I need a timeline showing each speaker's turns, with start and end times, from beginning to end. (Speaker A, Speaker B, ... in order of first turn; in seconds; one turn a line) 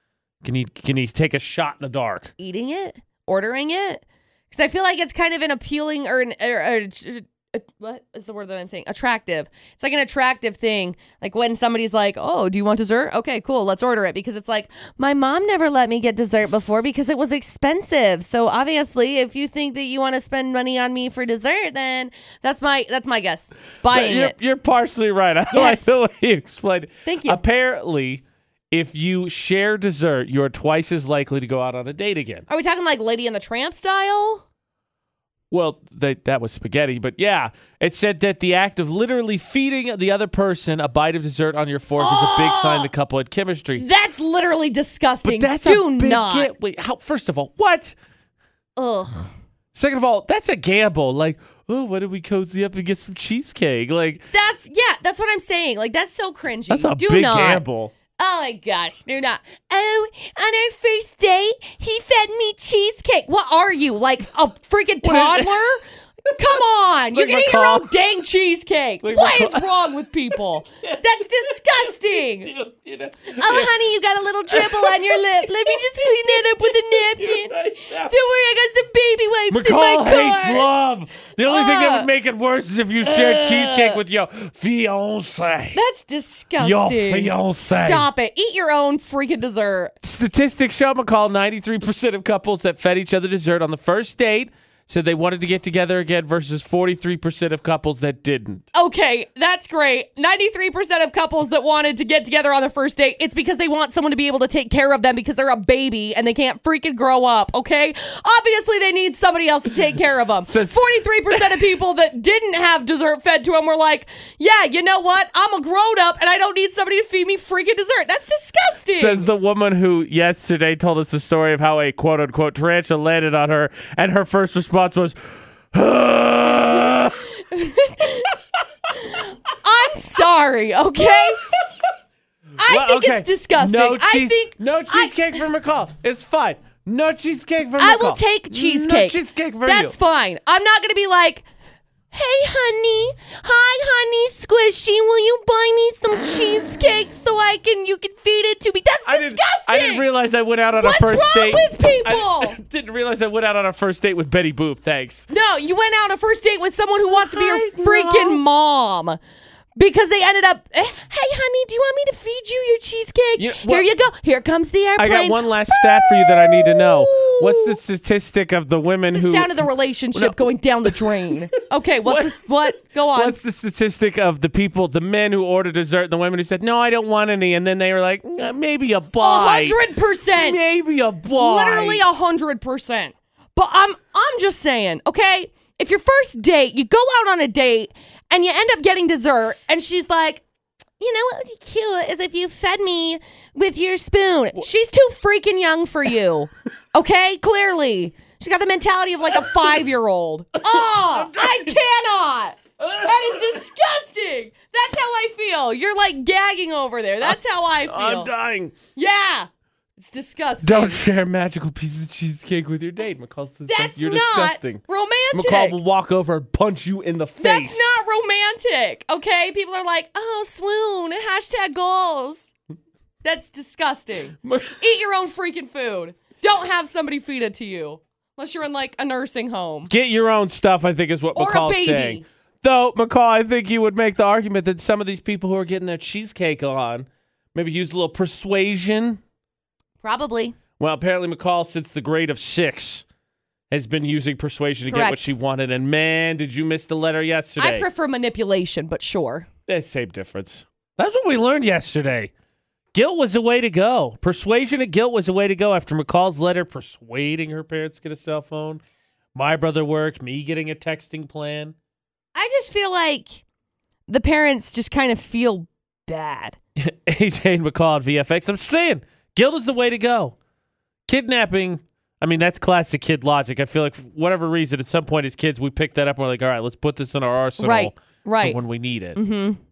Speaker A: 0.4-2.3
Speaker B: 2.4-24.3
Speaker A: 23.9-32.4
Speaker B: 25.5-26.0
Speaker B: 27.1-27.4
Speaker B: 32.5-34.4
Speaker A: 35.5-43.8
Speaker B: 42.0-42.9
Speaker B: 43.8-46.5
Speaker A: 45.2-48.0
Speaker B: 48.8-49.3
Speaker A: 49.7-54.3
Speaker B: 54.3-57.6
Speaker A: 56.7-57.9
Speaker B: 58.2-72.5
Speaker A: 65.0-65.5
Speaker A: 67.1-67.9
Speaker A: 69.0-69.7
Speaker A: 70.3-71.9
Speaker A: 72.4-73.7
Speaker B: 73.4-80.7
Speaker A: 74.5-78.1
Speaker A: 79.5-85.8
Speaker B: 81.4-82.1
Speaker B: 83.0-84.0
Speaker B: 85.7-89.9
Speaker A: 86.6-88.1
Speaker A: 90.0-98.6
Speaker B: 98.7-119.2
Speaker A: 110.4-110.8
Speaker A: 118.9-125.2
Speaker A: 125.7-127.3
Speaker B: 127.4-128.3
Speaker B: 128.9-131.4
Speaker A: 131.0-131.7
Speaker B: 132.6-135.1
Speaker A: 132.6-139.9
Speaker B: 137.8-141.4
Speaker B: 142.1-150.1
Speaker A: 149.1-155.3
Speaker B: 150.8-152.6
Speaker B: 155.3-159.2
Speaker A: 157.1-158.4
Speaker B: 159.8-167.8
Speaker A: 163.4-163.8
Speaker A: 165.0-169.5
Speaker B: 169.1-173.4
Speaker A: 170.1-171.3
Speaker A: 172.0-179.8
Speaker B: 179.2-180.6
Speaker A: 180.3-182.0
Speaker B: 181.4-190.4
Speaker B: 191.0-208.3
Speaker A: 200.6-201.8
Speaker A: 202.8-203.6
Speaker A: 207.2-208.8
Speaker B: 208.9-211.0
Speaker A: 210.6-217.9
Speaker B: 213.7-215.7
Speaker B: 217.4-222.5
Speaker B: 223.2-229.9
Speaker A: 224.4-224.8
Speaker A: 229.9-239.2
Speaker B: 231.3-232.2
Speaker B: 240.0-240.6
Speaker A: 240.8-243.0
Speaker A: 243.7-247.9
Speaker B: 244.9-245.3
Speaker B: 247.6-249.5
Speaker A: 249.7-252.3
Speaker A: 252.9-258.8
Speaker A: 259.3-261.7
Speaker B: 262.4-263.4
Speaker B: 264.1-266.6
Speaker A: 266.8-270.3
Speaker A: 271.1-279.2
Speaker B: 277.6-278.6
Speaker B: 279.1-279.6